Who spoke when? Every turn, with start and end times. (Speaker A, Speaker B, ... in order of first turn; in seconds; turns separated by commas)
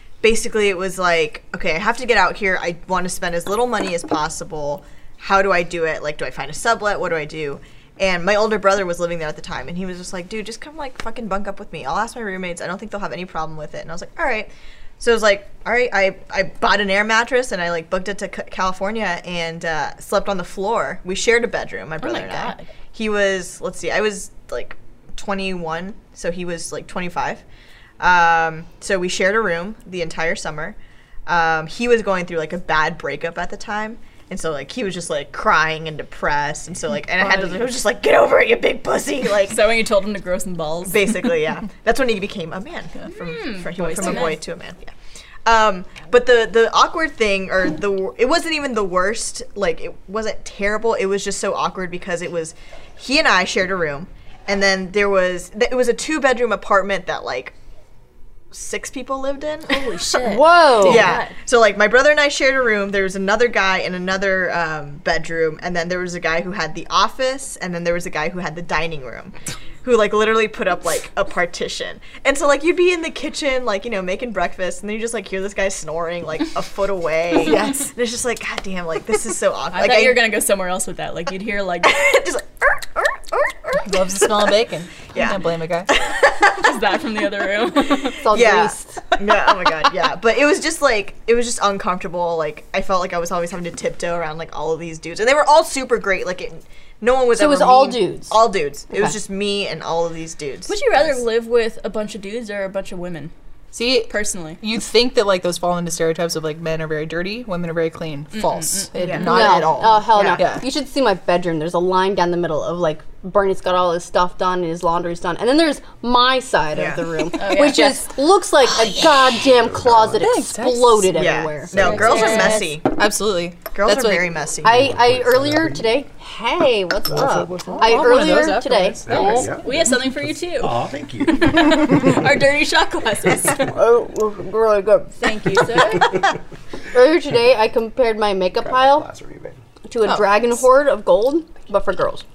Speaker A: 0.2-27.4, Speaker B: 22.0-22.7, Speaker A: 28.0-39.7, Speaker B: 39.4-41.1, Speaker A: 40.9-44.9, Speaker B: 43.1-44.4, Speaker A: 45.5-57.5, Speaker A: 58.5-80.3, Speaker B: 59.7-61.4, Speaker C: 60.2-61.2, Speaker B: 79.7-82.0, Speaker A: 81.8-84.5, Speaker D: 83.8-85.9, Speaker A: 85.1-86.8, Speaker B: 86.4-88.2, Speaker C: 88.2-89.0, Speaker A: 88.3-101.2, Speaker C: 97.3-98.4, Speaker B: 100.7-103.3, Speaker D: 103.7-110.6, Speaker B: 104.1-104.6, Speaker B: 108.3-109.3, Speaker A: 109.0-110.5, Speaker C: 109.2-122.6, Speaker A: 116.7-117.3, Speaker B: 117.3-118.0, Speaker E: 119.2-120.3, Speaker D: 120.2-121.3, Speaker A: 121.1-122.9, Speaker E: 121.7-122.4, Speaker B: 121.8-122.7, Speaker D: 122.8-124.4, Speaker A: 123.7-124.8, Speaker E: 124.6-126.0, Speaker C: 124.6-129.6, Speaker E: 127.1-128.3, Speaker D: 127.6-129.6, Speaker E: 129.0-132.3, Speaker B: 129.1-133.7, Speaker C: 133.7-135.3, Speaker B: 135.2-136.3, Speaker E: 136.0-136.3, Speaker C: 136.9-139.1, Speaker E: 138.6-139.6, Speaker C: 139.9-142.2, Speaker D: 140.0-140.6